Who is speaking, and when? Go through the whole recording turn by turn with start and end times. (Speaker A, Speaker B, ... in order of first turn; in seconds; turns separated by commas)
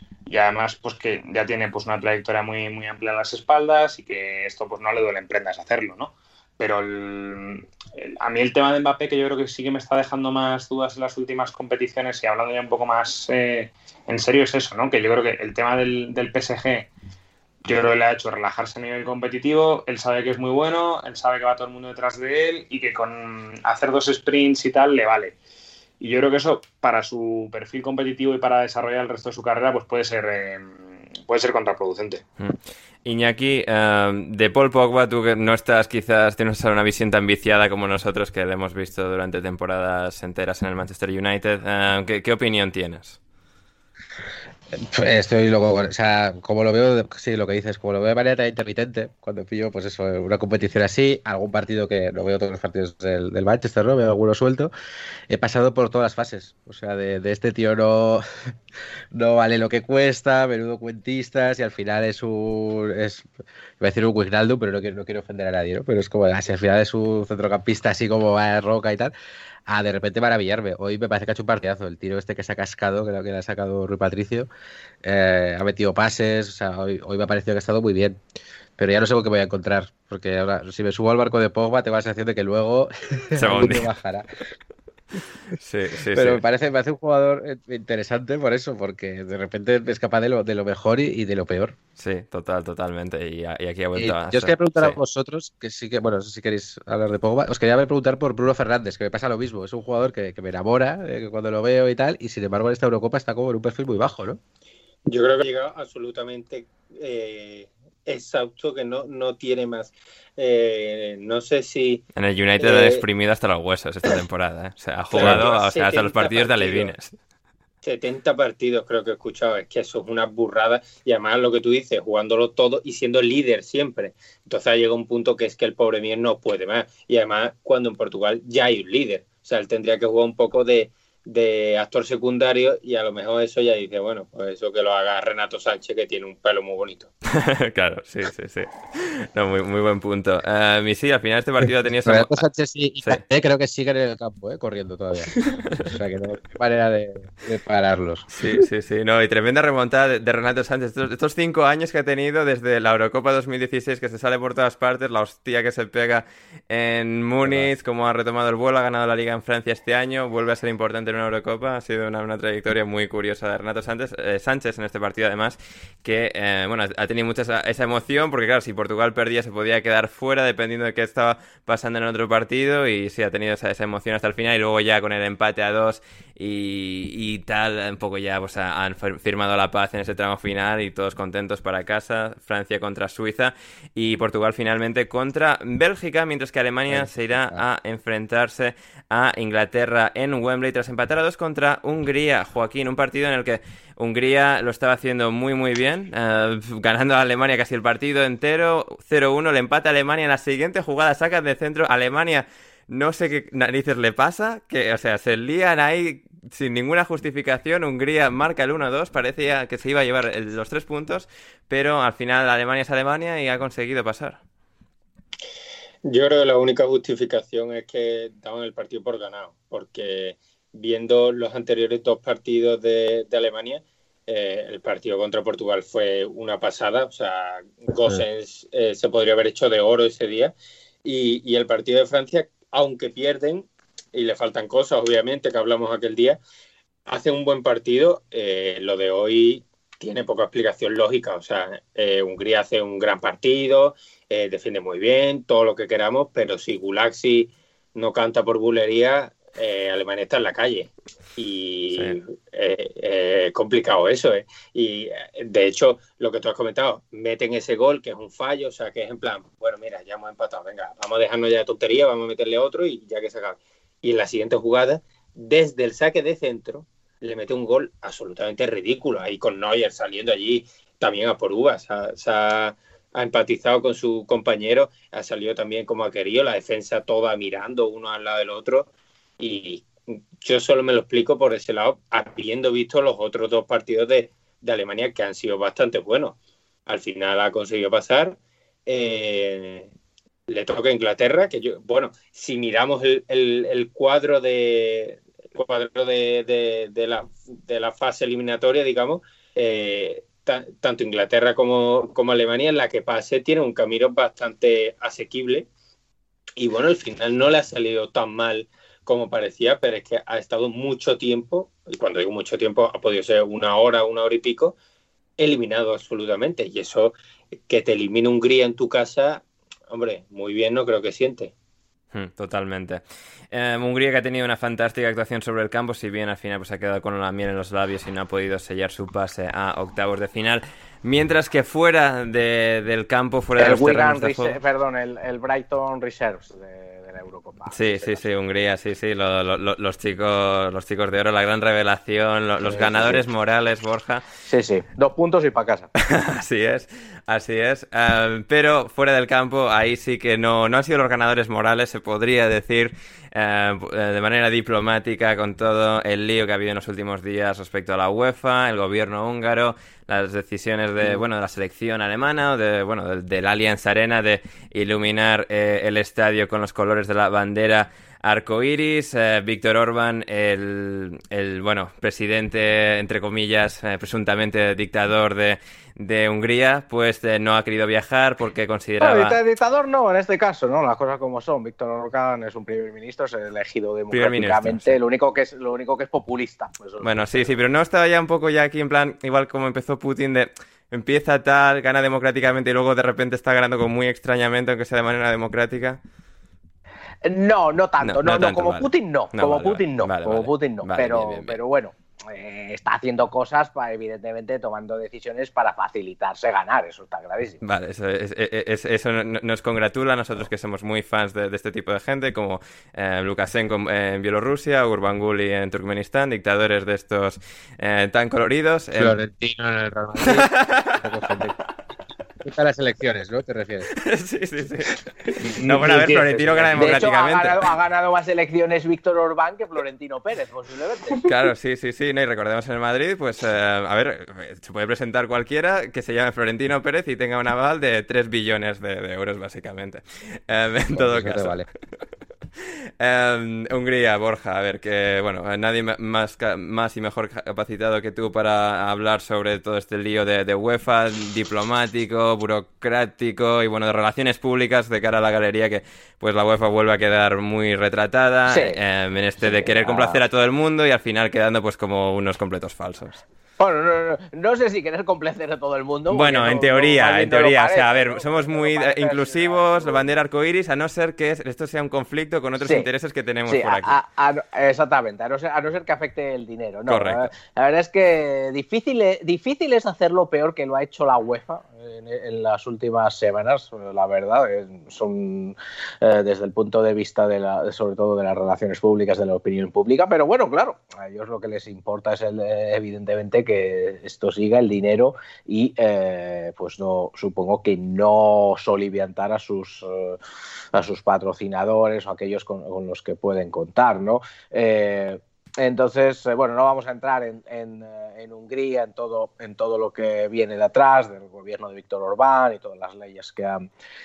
Speaker A: 0.3-16.9, Speaker A: 17.6-25.4, Speaker A: 26.0-32.2, Speaker B: 32.4-43.2, Speaker C: 44.7-54.7, Speaker C: 55.3-58.2, Speaker C: 59.1-63.3, Speaker C: 63.8-69.1, Speaker C: 69.7-74.5, Speaker C: 75.0-78.2, Speaker C: 78.8-84.2, Speaker B: 83.4-83.9, Speaker B: 85.6-86.4, Speaker C: 86.1-91.8, Speaker B: 92.0-95.0, Speaker C: 94.0-104.4, Speaker D: 105.1-112.0, Speaker B: 112.1-117.1, Speaker D: 112.6-113.0, Speaker D: 115.1-116.9, Speaker C: 115.2-115.4, Speaker D: 117.8-137.1, Speaker B: 137.3-142.4, Speaker C: 142.1-148.3, Speaker B: 148.3-214.4, Speaker C: 157.4-157.7, Speaker C: 186.9-187.6, Speaker D: 216.0-236.4, Speaker D: 237.1-279.9, Speaker B: 251.9-252.2, Speaker D: 280.4-289.9, Speaker D: 290.5-305.7, Speaker D: 306.6-314.8, Speaker D: 315.4-317.1, Speaker D: 317.7-321.5, Speaker B: 322.1-334.6, Speaker E: 333.6-338.2, Speaker B: 337.7-344.2, Speaker E: 342.6-343.2, Speaker E: 344.4-345.9, Speaker B: 346.0-379.4, Speaker E: 379.0-387.5, Speaker B: 384.1-385.0, Speaker B: 387.0-396.0, Speaker E: 397.2-407.6, Speaker B: 398.0-401.6, Speaker B: 407.6-419.2, Speaker C: 419.0-421.6, Speaker B: 420.2-421.0, Speaker C: 422.4-423.9, Speaker B: 424.0-427.6, Speaker A: 425.6-426.9, Speaker E: 426.8-431.3, Speaker B: 431.2-441.5, Speaker C: 440.9-441.7, Speaker B: 443.0-463.2, Speaker E: 458.5-458.8, Speaker E: 459.4-460.2, Speaker E: 463.6-470.1, Speaker B: 466.1-473.9, Speaker E: 472.6-472.9, Speaker E: 473.4-500.2, Speaker B: 476.9-477.3, Speaker E: 500.7-513.7